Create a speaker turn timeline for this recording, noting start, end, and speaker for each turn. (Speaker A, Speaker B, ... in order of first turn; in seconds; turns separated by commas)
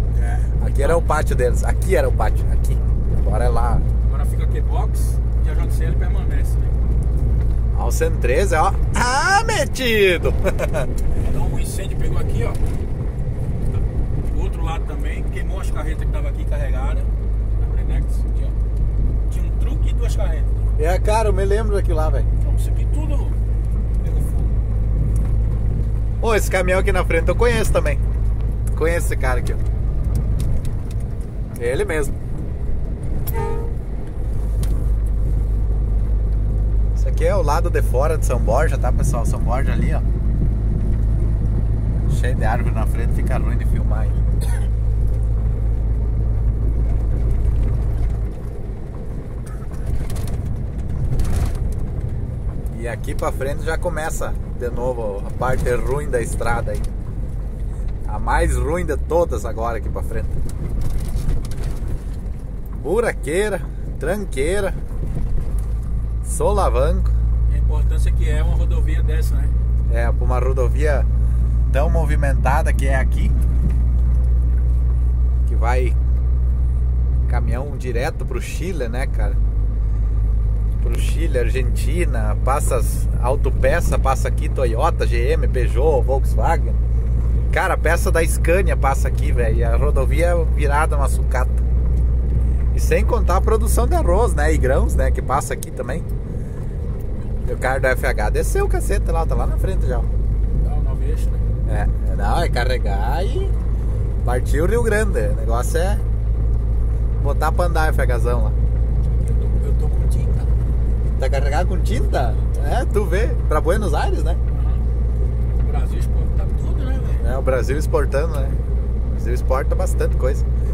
Speaker A: 0.1-1.1, Speaker B: 0.6-3.8, Speaker A: 4.0-6.8, Speaker B: 7.7-10.9, Speaker A: 11.2-12.6, Speaker A: 14.2-18.6, Speaker A: 19.3-20.7, Speaker B: 20.8-22.3, Speaker A: 22.4-23.4, Speaker A: 24.0-24.5, Speaker B: 26.2-28.0, Speaker B: 28.7-29.6, Speaker B: 31.6-32.1, Speaker B: 37.0-40.0, Speaker B: 42.1-44.2, Speaker B: 52.7-56.9, Speaker B: 58.0-60.4, Speaker B: 62.8-64.8, Speaker B: 66.2-67.1, Speaker A: 67.5-69.5, Speaker B: 69.9-71.1, Speaker B: 71.7-73.3, Speaker B: 75.5-76.0, Speaker B: 77.3-79.4, Speaker B: 80.8-86.8, Speaker B: 87.5-91.6, Speaker B: 92.7-96.0, Speaker B: 97.4-100.1, Speaker A: 100.6-101.5, Speaker B: 101.6-103.5, Speaker B: 104.2-106.0, Speaker B: 107.2-108.5, Speaker A: 109.1-110.5, Speaker B: 111.2-114.4, Speaker A: 114.5-114.8, Speaker A: 115.6-117.3, Speaker B: 117.2-118.6, Speaker B: 119.1-120.4